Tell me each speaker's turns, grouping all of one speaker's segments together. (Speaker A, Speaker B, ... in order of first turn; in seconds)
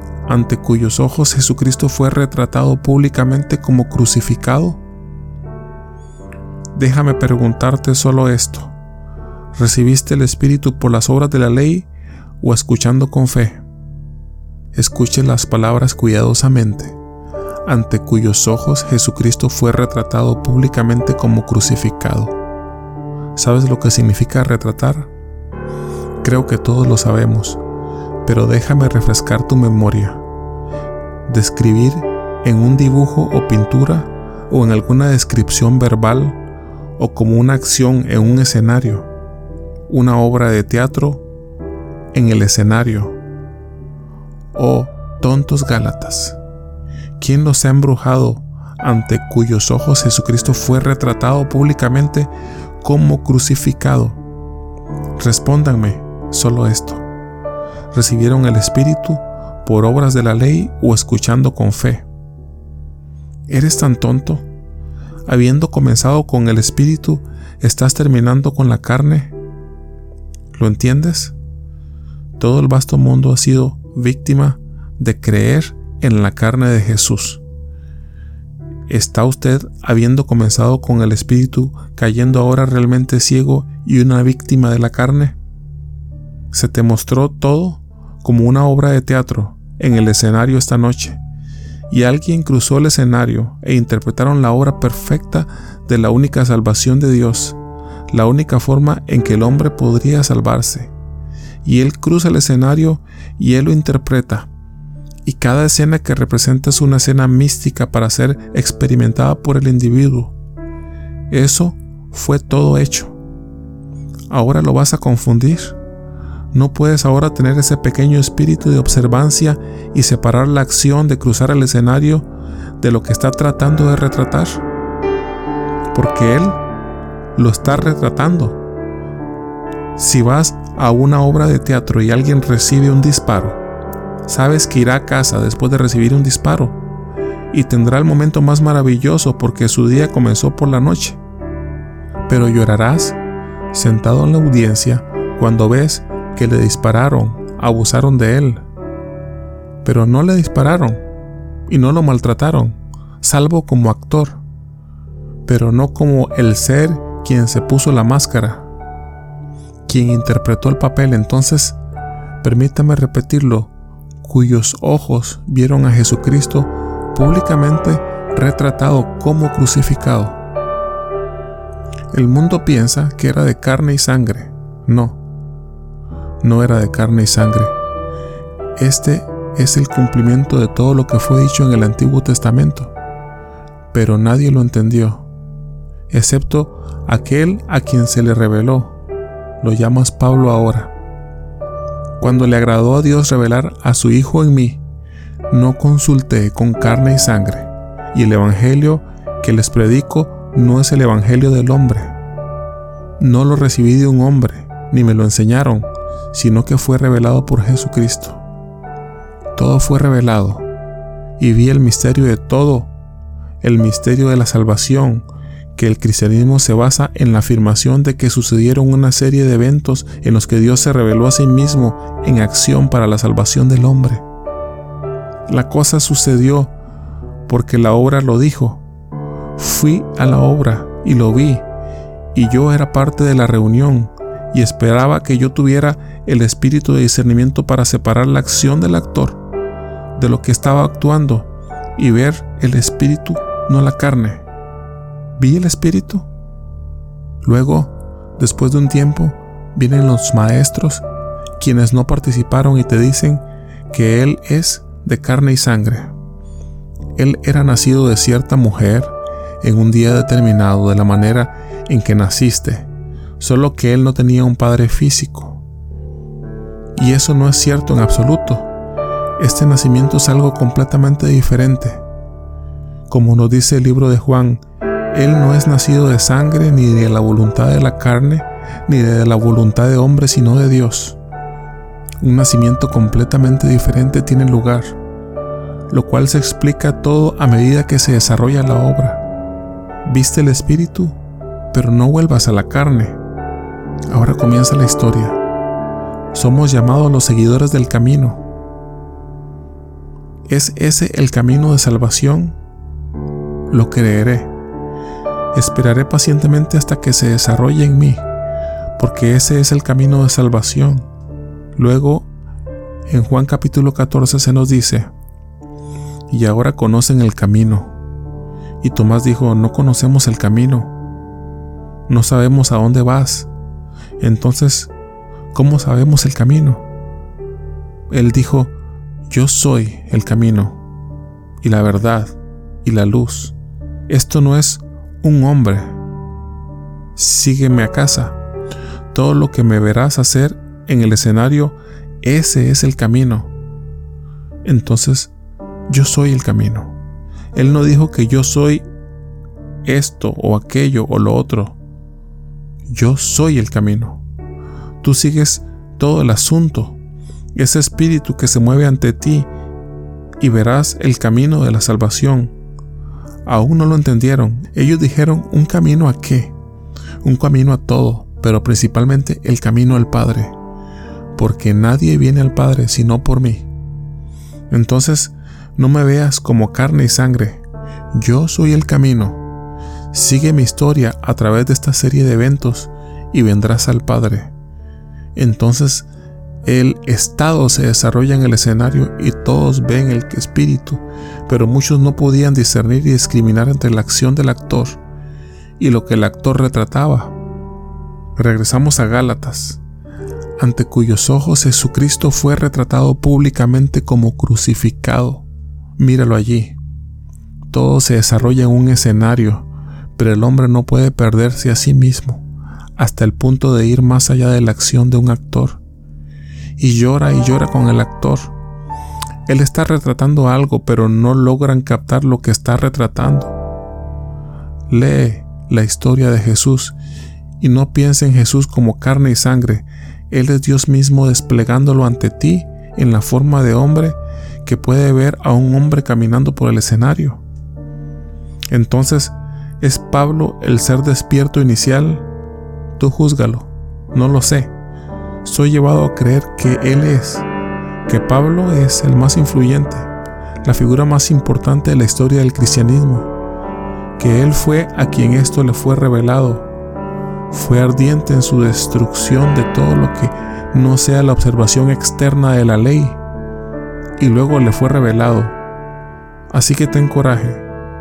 Speaker A: 0.3-4.8, 6.7-8.7, 9.5-11.9, 12.4-13.6, 14.7-17.0, 17.6-22.4, 23.3-25.1, 26.2-27.6, 28.2-30.2, 31.2-36.4, 37.0-39.1, 39.9-41.2, 42.1-43.2, 44.5-46.4, 47.2-52.3, 52.8-54.2, 55.2-57.0, 57.9-62.0, 63.5-64.4, 65.2-69.3, 70.5-71.3, 72.4-77.4, 78.9-85.4, 86.5-91.2, 91.9-97.6, 98.1-100.9, 101.6-104.5, 105.2-110.3, 111.3-113.2, 114.3-115.8, 116.5-122.3, 122.8-124.6, 125.9-126.6, 127.3-128.6, 129.9-133.6, 134.2-136.8, 137.5-141.2, 142.3-143.2, 143.7-148.6, 149.8-151.0, 151.7-154.4, 155.4-158.7, 159.9-161.8, 162.4-163.7, 164.2-170.4, 172.1-175.2, 176.4-177.7, 178.8-182.9, 183.9-185.3, 186.1-189.0, 189.6-190.9, 192.2-194.8, 195.5-202.1, 203.2-208.4, 209.6-210.7, 211.4-212.9, 213.6-224.2, 225.5-226.7, 227.5-228.8, 229.6-231.6, 232.3-239.4, 240.1-244.4, 245.4-246.3, 247.4-251.0, 251.6-256.1, 257.1-262.9, 263.4-265.6, 266.9-268.7, 269.4-272.0, 273.1-274.6, 275.1-281.2, 282.2-285.0, 285.9-289.2, 290.0-291.2, 291.7-293.2, 294.1-295.4, 296.3-298.4, 300.5-302.6, 303.7-304.5, 305.5-308.2, 309.0-311.1, 311.7-312.3, 313.1-315.1, 316.3-317.9, 318.8-320.9, 322.1-323.5, 324.2-324.9, 325.5-326.8, 328.1-328.7, 329.3-330.8, 331.6-333.5, 334.1-336.0, 337.1-338.4, 339.1-343.5, 344.6-345.3, 345.9-346.9, 347.5-348.8, 349.8-351.8, 352.9-354.2, 355.0-357.0, 357.5-359.5, 360.4-362.5, 363.4-366.5, 367.2-370.5, 371.3-373.7, 374.7-377.6, 378.1-379.4, 380.1-384.5, 385.3-386.1, 386.6-395.0, 395.8-397.3, 398.4-399.8, 400.6-405.4, 406.0-406.8, 407.7-412.4, 413.0-415.8, 416.8-418.5, 419.5-423.5, 424.9-427.0, 427.6-437.4, 438.7-442.2, 443.0-444.7, 445.4-447.5, 448.1-450.1, 450.6-453.3, 454.2-456.7, 457.5-463.2, 464.2-465.6, 466.5-467.6